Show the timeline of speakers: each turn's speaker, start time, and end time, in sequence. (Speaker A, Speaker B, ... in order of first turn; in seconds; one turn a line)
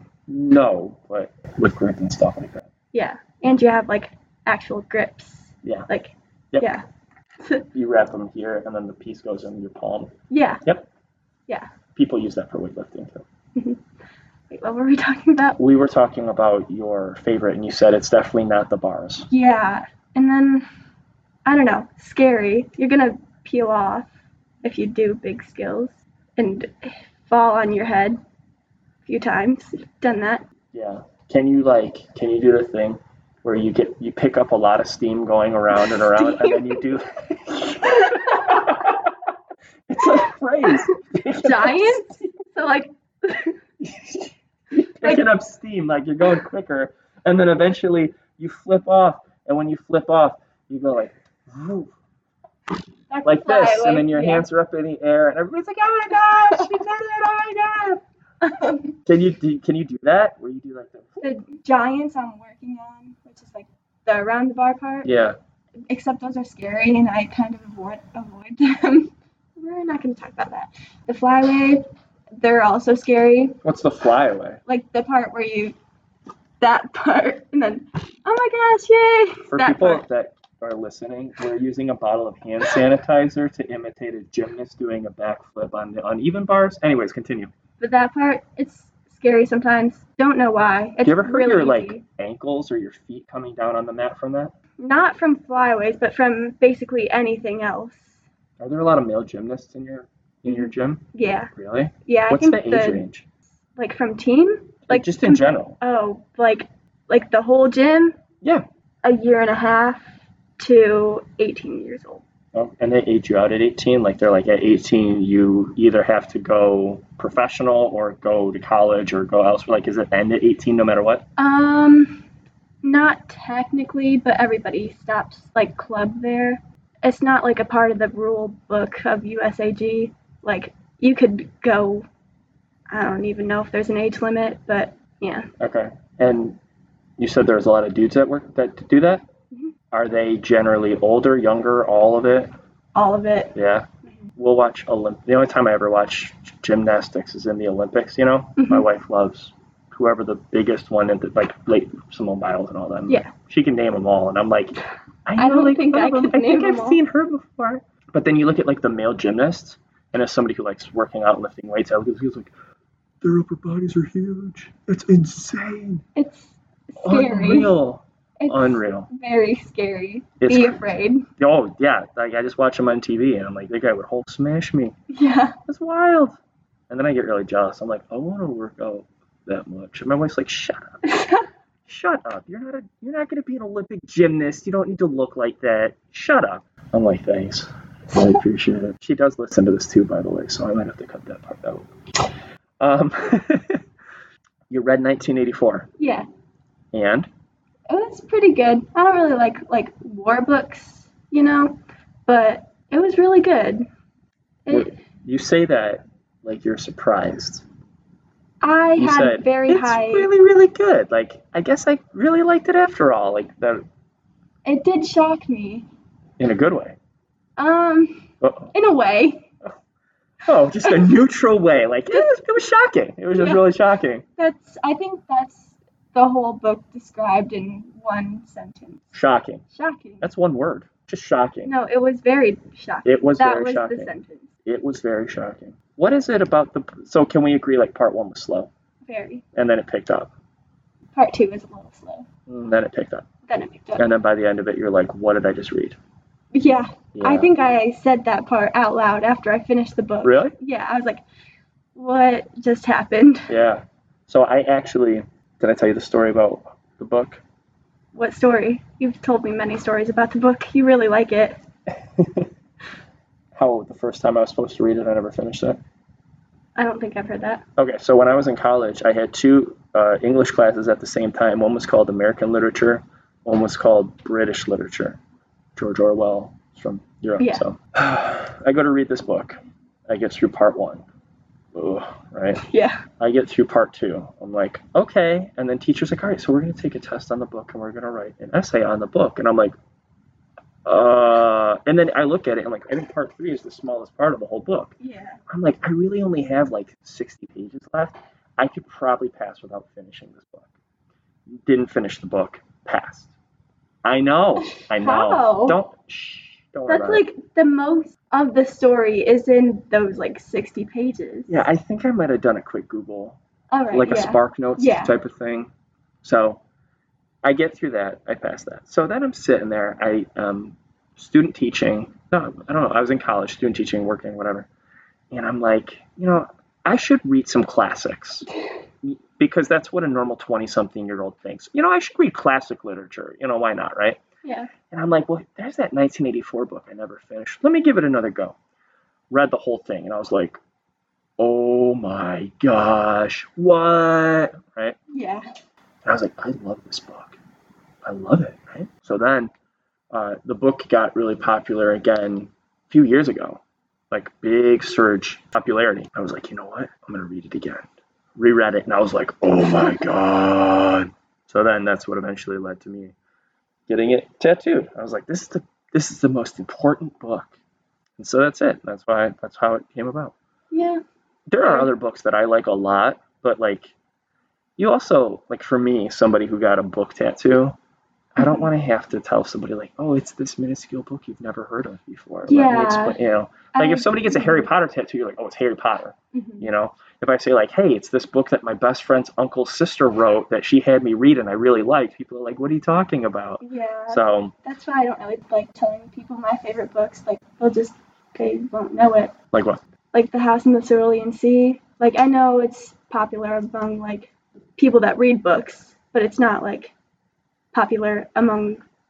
Speaker A: 0.3-2.7
Speaker B: 2.9-6.8
Speaker A: 5.6-5.9
Speaker B: 7.4-7.7
Speaker A: 7.7-10.1
Speaker B: 10.3-10.6
Speaker A: 11.9-13.2
Speaker B: 13.5-13.8
Speaker B: 14.5-15.6
Speaker A: 15.6-19.3
Speaker B: 19.3-20.6
Speaker B: 21.4-24.1
Speaker B: 24.6-28.2
Speaker B: 29.0-30.4
Speaker A: 30.7-39.1
Speaker B: 35.9-36.8
Speaker B: 38.1-38.6
Speaker A: 39.9-42.1
Speaker B: 41.3-43.5
Speaker A: 43.8-51.9
Speaker B: 53.1-54.4
Speaker A: 53.2-58.0
Speaker B: 56.5-56.8
Speaker B: 58.4-59.0
Speaker A: 59.0-61.2
Speaker B: 61.2-65.1
Speaker A: 65.0-65.3
Speaker B: 65.9-71.8
Speaker B: 72.4-73.6
Speaker A: 73.6-74.6
Speaker B: 74.7-75.7
Speaker B: 76.6-80.0
Speaker A: 79.5-87.5
Speaker B: 87.8-92.0
Speaker A: 91.0-94.5
Speaker B: 94.8-98.2
Speaker A: 98.6-103.2
Speaker B: 100.5-101.5
Speaker B: 102.0-103.0
Speaker B: 103.8-108.2
Speaker A: 104.9-105.8
Speaker B: 109.0-110.1
Speaker B: 110.6-112.2
Speaker A: 112.5-121.2
Speaker B: 121.4-122.2
Speaker B: 122.8-132.1
Speaker B: 132.9-135.5
Speaker A: 135.6-136.6
Speaker A: 137.2-139.2
Speaker A: 139.9-142.5
Speaker B: 142.9-143.5
Speaker A: 143.5-162.5
Speaker B: 148.6-148.8
Speaker B: 155.4-157.0
Speaker A: 163.2-166.0
Speaker B: 166.2-167.7
Speaker A: 167.0-169.1
Speaker B: 168.4-171.2
Speaker A: 170.4-174.9
Speaker B: 175.1-175.6
Speaker A: 175.7-176.4
Speaker A: 176.9-181.0
Speaker B: 181.0-181.4
Speaker A: 181.8-191.9
Speaker A: 192.8-193.8
Speaker A: 194.7-195.9
Speaker B: 196.0-196.3
Speaker A: 196.9-197.3
Speaker B: 197.9-203.8
Speaker B: 204.7-204.9
Speaker A: 204.7-207.6
Speaker B: 208.6-210.3
Speaker A: 209.0-213.8
Speaker B: 214.6-215.9
Speaker A: 216.4-217.0
Speaker B: 217.6-219.5
Speaker A: 218.4-218.7
Speaker A: 220.4-224.2
Speaker B: 223.4-223.6
Speaker B: 224.4-229.1
Speaker A: 229.1-229.6
Speaker B: 229.7-230.2
Speaker A: 230.2-231.7
Speaker B: 231.7-234.5
Speaker A: 233.0-234.1
Speaker A: 234.6-238.7
Speaker B: 239.0-239.4
Speaker A: 239.5-240.3
Speaker B: 241.1-242.3
Speaker A: 242.5-243.2
Speaker B: 243.4-244.1
Speaker A: 244.0-246.0
Speaker B: 246.5-251.2
Speaker A: 247.1-247.5
Speaker A: 250.2-250.5
Speaker B: 251.9-253.5
Speaker A: 253.5-257.4
Speaker B: 258.1-261.6
Speaker A: 262.1-262.5
Speaker A: 263.5-265.8
Speaker B: 266.8-267.6
Speaker A: 267.8-275.2
Speaker A: 275.8-279.6
Speaker B: 277.4-277.6
Speaker A: 280.1-281.0
Speaker A: 281.7-282.6
Speaker B: 282.6-283.0
Speaker A: 283.2-289.7
Speaker A: 290.8-295.0
Speaker B: 295.0-295.4
Speaker A: 295.5-300.7
Speaker A: 301.5-303.3
Speaker A: 304.0-307.2
Speaker B: 304.9-305.8
Speaker B: 306.9-311.6
Speaker A: 311.5-313.4
Speaker B: 313.7-315.1
Speaker A: 313.9-315.7
Speaker A: 316.2-316.6
Speaker A: 317.4-324.7
Speaker A: 325.3-328.4
Speaker A: 329.0-334.2
Speaker B: 334.4-334.7
Speaker A: 334.9-338.6
Speaker A: 339.3-340.6
Speaker A: 341.4-345.0
Speaker B: 345.1-345.4
Speaker A: 346.0-347.4
Speaker A: 348.0-349.5
Speaker A: 350.1-363.1
Speaker A: 363.9-367.5
Speaker A: 368.2-370.3
Speaker B: 370.7-371.0
Speaker A: 371.5-373.9
Speaker B: 371.6-371.9
Speaker A: 374.8-377.8
Speaker A: 378.4-394.5
Speaker B: 378.4-378.7
Speaker B: 382.5-383.2
Speaker B: 383.7-384.7
Speaker B: 386.3-386.7
Speaker B: 393.6-399.3
Speaker A: 399.5-399.8
Speaker B: 400.1-406.9
Speaker B: 407.7-408.8